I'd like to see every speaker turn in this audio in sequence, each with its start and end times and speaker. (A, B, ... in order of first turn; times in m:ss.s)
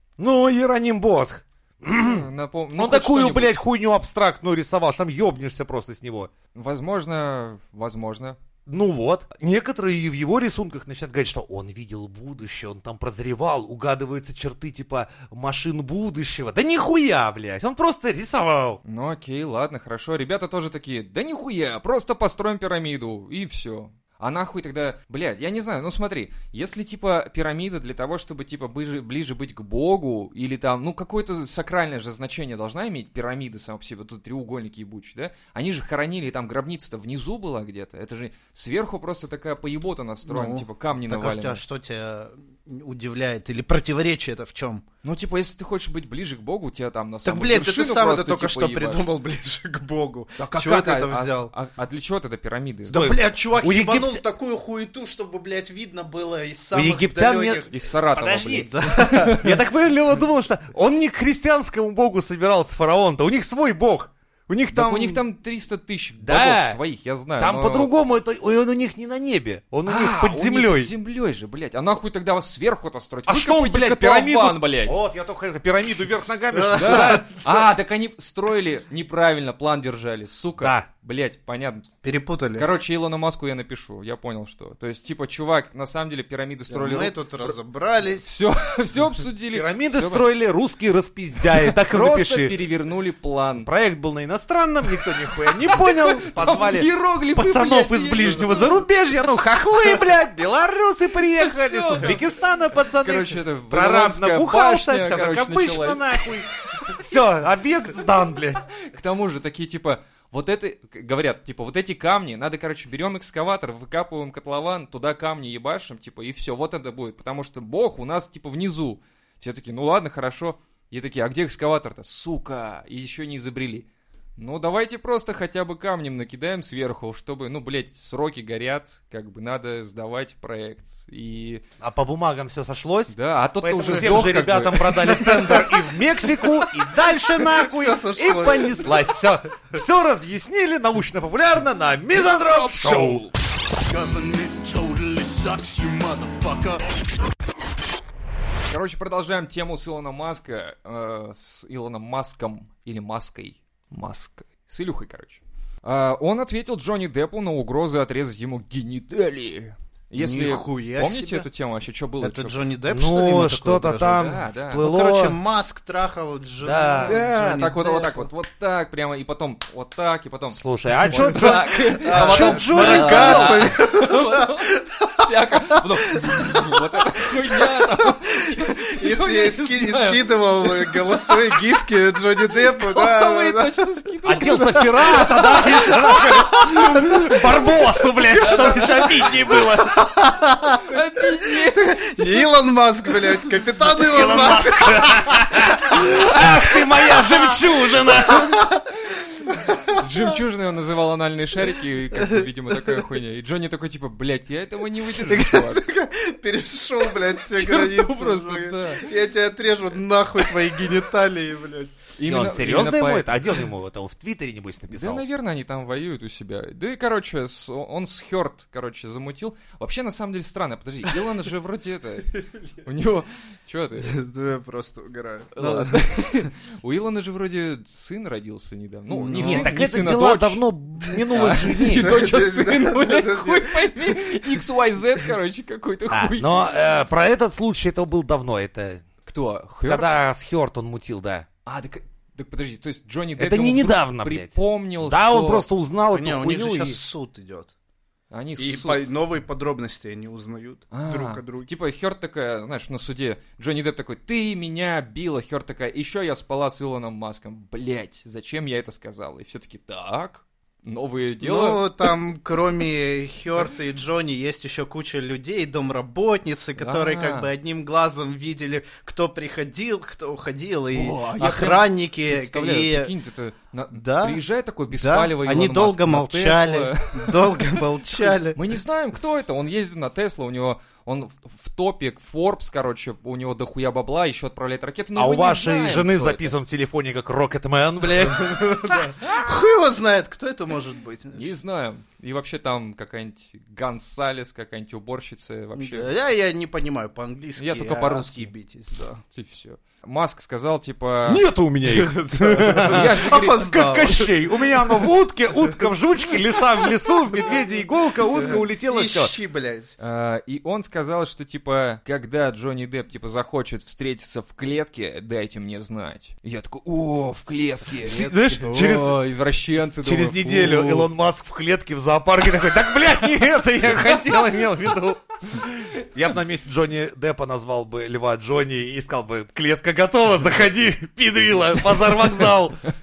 0:00.2-0:06.3 A
0:01.9-0:03.6 B
0:06.5-0:08.4 B
0:08.7-0:18.8 A
0:18.8-0:41.6 B
0:40.2-0:44.8 C
0:45.0-0:49.0 B
0:47.2-0:51.5 C
0:50.4-0:53.0 B
0:52.9-0:57.8 C
0:52.9-0:54.2 A
0:56.7-1:05.2 A
0:57.7-0:59.5 B
0:58.4-0:59.4 C
1:04.7-1:07.9 B
1:06.2-1:06.8 A
1:07.4-1:10.9 A
1:09.8-1:15.0 B
1:13.3-1:17.3 A
1:16.5-1:17.4 C
1:16.7-1:21.9 B
1:20.6-1:20.8 A
1:22.0-1:22.7 C
1:22.6-1:27.5 B
1:26.7-1:28.3 C
1:28.2-1:30.3 B
1:29.5-1:32.5 A
1:31.4-1:33.7 B
1:33.6-1:48.6 A
1:35.4-1:38.8 B
1:41.3-1:42.2 B
1:43.0-1:47.0 B
1:48.8-2:11.6 B
2:11.8-2:23.3 A
2:13.1-2:15.5 B
2:15.1-2:15.8 C
2:16.4-2:19.2 C
2:22.4-2:23.3 B
2:23.8-2:26.8 D
2:28.7-2:42.6 B
2:40.2-2:41.5 C
2:42.2-2:48.3 C
2:42.9-2:45.4 A
2:44.0-2:44.8 B
2:46.6-2:47.2 A
2:47.0-3:01.6 B
2:50.5-2:53.7 A
2:51.2-3:16.1 C
3:02.6-3:06.2 B
3:04.2-3:10.1 A
3:08.4-3:09.3 B
3:10.8-3:12.4 B
3:13.9-3:18.6 A
3:16.0-3:16.4 B
3:17.0-3:18.9 C
3:19.5-3:20.3 C
3:19.9-3:25.8 B
3:22.1-3:23.0 C
3:25.1-3:32.0 C
3:27.5-3:29.1 B
3:32.2-3:33.4 B
3:32.2-3:35.2 A
3:34.9-3:44.2 B
3:44.0-3:46.5 C
3:45.5-3:50.6 B
3:49.1-3:49.7 C
3:49.4-3:52.2 A
3:51.1-3:54.4 C
3:51.3-3:56.6 B
3:56.1-3:59.0 A
3:59.2-4:00.2 B
3:59.9-4:01.5 A
4:01.6-4:05.6 B
4:03.4-4:07.0 A
4:06.1-4:07.7 C
4:08.3-4:09.1 B
4:08.6-4:11.7 C
4:10.9-4:21.9 B
4:21.4-4:33.1 C
4:26.8-4:27.5 B
4:30.9-4:46.5 B
4:33.9-4:38.7 C
4:45.2-4:48.7 A
4:48.1-4:51.5 C
4:51.3-4:56.1 B
4:55.8-4:59.2 C
4:57.6-4:58.5 B
4:59.3-5:01.4 B
5:01.2-5:09.3 A
5:01.8-5:05.0 C
5:02.7-5:03.6 B
5:08.3-5:09.9 C
5:10.0-5:21.1 B
5:18.0-5:19.0 C
5:18.0-5:19.2 A
5:19.8-5:32.8 A